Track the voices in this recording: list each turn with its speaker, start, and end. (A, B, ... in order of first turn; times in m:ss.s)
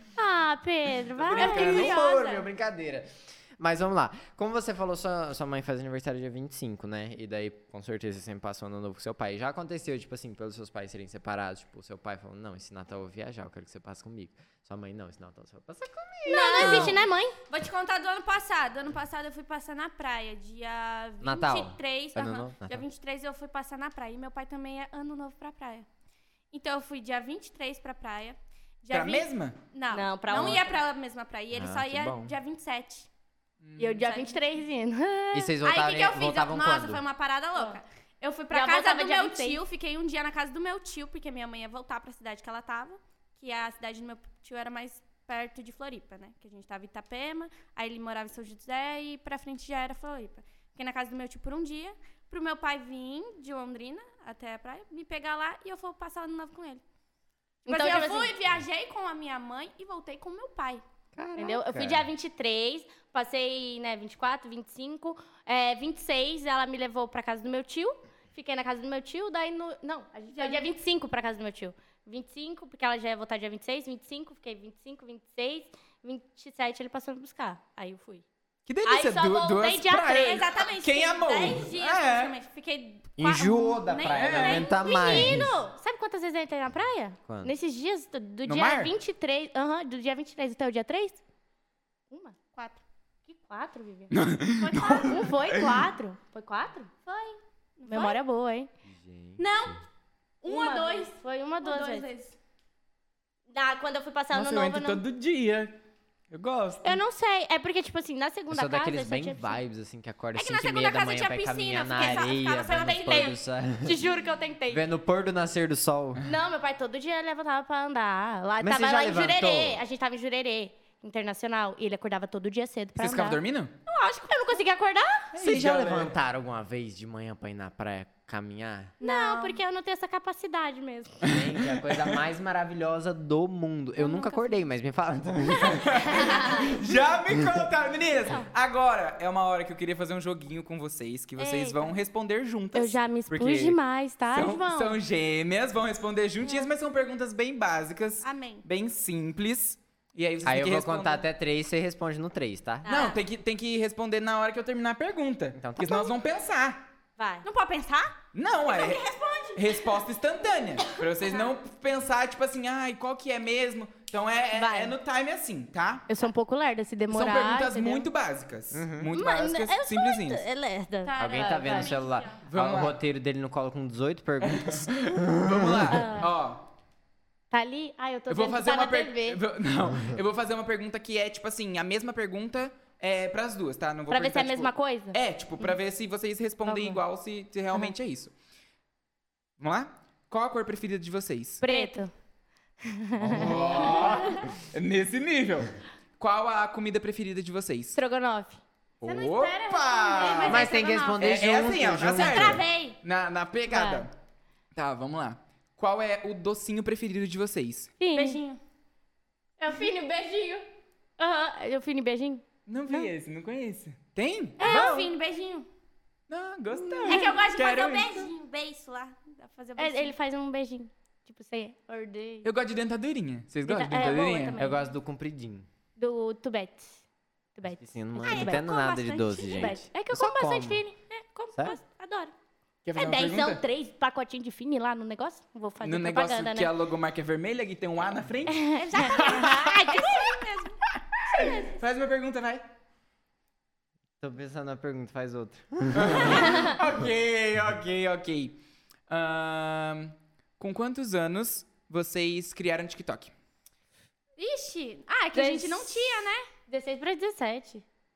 0:00.2-0:02.0 A
0:01.2-0:17.0 B
0:01.3-0:02.0 C
0:01.4-0:02.4 D
0:16.2-0:17.4 A
0:16.2-0:25.9 D
0:21.2-0:22.9 B
0:26.5-0:33.1 D
0:28.9-0:29.6 C
0:29.9-0:30.7 A
0:30.3-0:30.6 C
0:31.5-0:32.4 B
0:33.6-0:34.0 C
0:33.8-0:35.6 A
0:34.0-0:34.4 D
0:35.3-0:37.0 B
0:35.6-0:56.8 D
0:38.5-0:39.6 A
0:57.7-0:58.3 A
0:57.7-1:00.8 D
1:01.2-1:02.1 B
1:01.4-1:18.2 A
1:10.3-1:10.6 D
1:18.7-1:22.3 C
1:18.8-1:20.4 A
1:20.1-1:25.4 D
1:23.2-1:25.6 B
1:23.2-1:23.8 A
1:24.1-1:24.7 C
1:24.5-1:31.2 A
1:27.3-1:27.5 B
1:28.4-1:28.9 C
1:32.1-1:32.4 A
1:32.5-1:32.8 D
1:33.3-1:36.9 A
1:34.1-1:35.8 C
1:34.7-1:35.1 D
1:37.1-1:38.2 D
1:37.9-1:38.7 A
1:38.9-1:39.8 B
1:39.4-1:39.8 D
1:40.4-1:42.4 D
1:40.5-1:42.1 A
1:43.5-1:45.0 A
1:44.3-1:45.8 C
1:46.3-1:47.0 C
1:46.8-1:49.6 A
1:48.5-1:54.0 B
1:50.3-1:53.4 D
1:53.8-1:54.8 A
1:54.7-1:56.2 B
1:56.2-2:05.3 A
1:58.6-1:59.8 B
2:03.0-2:03.7 C
2:05.3-2:06.1 C
2:05.4-2:09.0 B
2:09.0-2:11.3 A
2:09.0-2:09.6 D
2:11.3-2:16.2 B
2:14.0-2:14.5 A
2:15.6-2:23.8 C
2:16.0-2:16.8 A
2:21.4-2:21.9 D
2:22.7-2:25.0 A
2:24.3-2:31.3 C
2:28.2-2:28.6 D
2:30.4-2:32.9 B
2:32.8-2:33.1 A
2:32.9-2:33.2 D
2:32.9-2:36.9 C
2:35.5-2:36.1 B
2:37.2-2:37.5 A
2:37.4-2:38.1 D
2:38.3-2:39.0 C
2:38.7-2:40.0 D
2:39.6-2:46.1 C
2:44.6-2:45.0 A
2:46.1-2:48.1 A
2:47.1-2:50.4 C
2:48.7-2:49.1 B
2:49.1-2:51.9 A
2:51.0-2:52.4 D
2:51.2-2:56.0 B
2:52.5-2:53.0 C
2:54.4-2:56.6 C
2:55.9-2:56.3 A
2:57.5-2:59.4 A
2:58.3-3:08.3 C
3:04.1-3:05.7 A
3:06.6-3:07.0 A
3:09.6-3:11.6 C
3:11.6-3:12.1 A
3:11.6-3:12.0 D
3:12.8-3:14.3 A
3:13.2-3:18.0 C
3:13.3-3:14.3 B
3:18.0-3:20.9 A
3:19.0-3:20.6 C
3:20.0-3:21.4 D
3:20.5-3:22.6 B
3:21.2-3:24.1 C
3:22.0-3:23.0 D
3:23.7-3:24.0 A
3:24.8-3:27.9 C
3:28.0-3:28.4 A
3:28.1-3:28.6 D
3:29.6-3:30.7 A
3:31.2-3:33.1 A
3:32.7-3:35.1 C
3:34.6-3:34.9 A
3:34.6-3:35.7 D
3:36.3-3:38.3 C
3:36.8-3:37.4 A
3:37.1-3:40.2 D
3:39.8-3:42.5 A
3:42.4-3:44.6 C
3:43.6-3:44.8 A
3:44.6-3:45.7 B
3:46.0-3:47.0 A
3:47.6-3:48.6 A
3:47.7-3:50.8 B
3:48.2-3:49.8 D
3:49.5-3:52.3 A
3:52.8-3:53.6 C
3:52.9-3:56.7 A
3:55.8-4:00.2 C
3:58.5-4:00.4 A
3:58.8-4:00.8 D
4:00.9-4:02.6 C
4:01.3-4:01.7 A
4:04.2-4:06.5 B
4:05.9-4:08.6 C
4:06.4-4:06.8 A
4:09.1-4:13.3 C
4:14.4-4:16.5 D
4:15.3-4:17.8 A